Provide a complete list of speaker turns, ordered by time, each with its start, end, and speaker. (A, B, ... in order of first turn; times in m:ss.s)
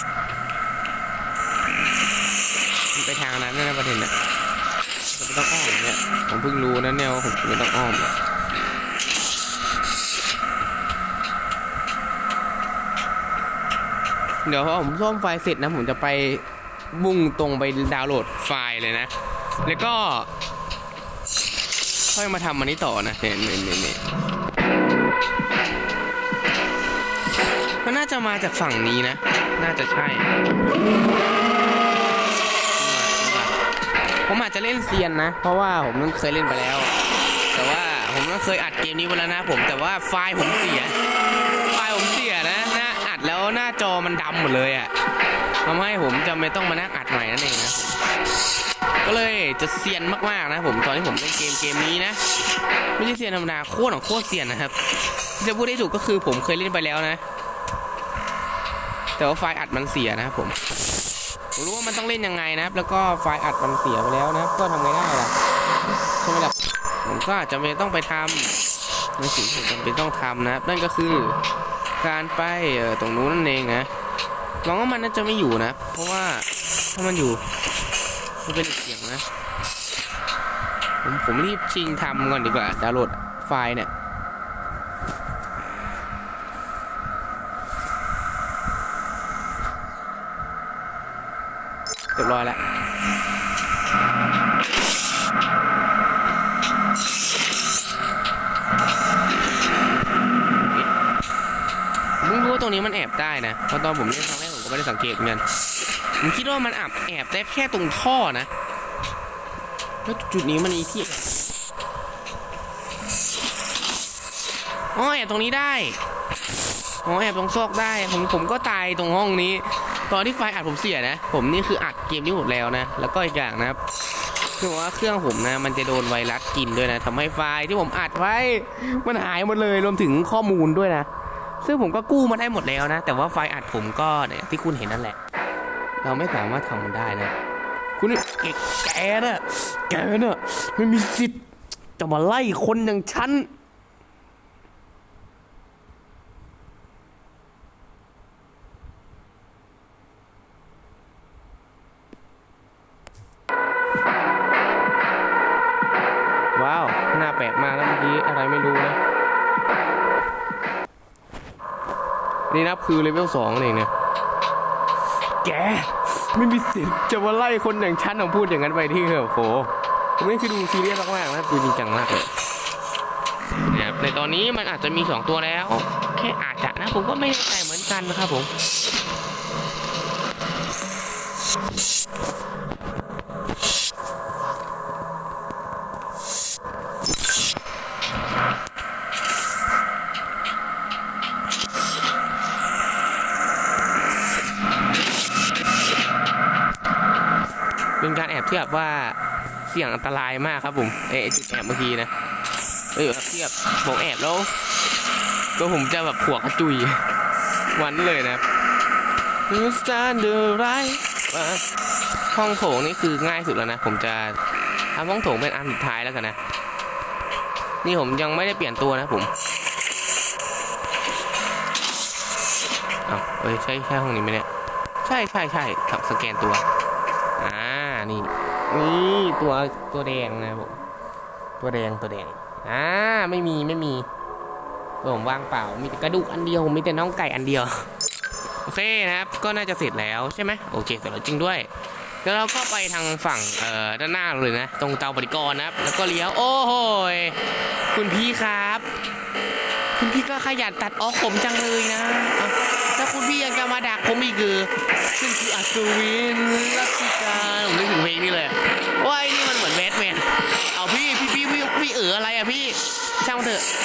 0:03.0-0:04.1 A
0:05.1-0:08.1 A
0:14.5-0:19.1 A
0:19.6-0:20.3 A
0:22.1-0:24.0 A
0:27.8-0:30.3 A
0:32.8-0:33.5 A
0:34.3-0:36.9 A
0:37.5-0:41.0 A
0:41.7-0:44.9 A
0:45.6-0:48.0 A
0:49.0-0:52.2 A
0:53.0-0:54.8 A
0:55.4-0:57.2 A
0:59.2-1:00.6 A
1:01.6-1:05.3 A
1:06.2-1:08.5 A
1:09.2-1:11.4 A
1:12.0-1:13.9 A
1:14.6-1:17.4 A
1:18.4-1:19.2 A
1:21.0-1:23.9 A
1:32.2-1:32.6 A
1:42.2-1:45.4 A
1:46.2-1:48.5 A
1:50.0-1:51.5 A
1:54.9-1:56.0 A
1:57.0-2:03.8 A
2:04.6-2:11.1 A
2:11.6-2:15.2 A
2:16.0-2:17.3 A
2:18.0-2:21.4 A
2:22.0-2:23.5 A
2:36.6-2:39.0 A
2:42.5-2:43.9 A
2:45.4-2:52.3 A
2:53.7-2:58.5 A
3:18.0-3:22.1 A
3:22.9-3:24.5 A
3:25.6-3:27.0 A
3:27.7-3:28.4 A
3:29.5-3:31.6 A
3:32.3-3:34.4 A
3:34.9-3:36.4 A
3:37.8-3:39.3 A
3:43.1-3:44.5 A
3:45.0-3:46.7 A
3:47.4-3:50.8 A
3:51.6-3:54.1 A
3:55.0-3:57.9 A
3:58.6-4:01.7 A
4:02.2-4:07.4 A
4:07.9-4:08.9 A
4:10.0-4:23.6 A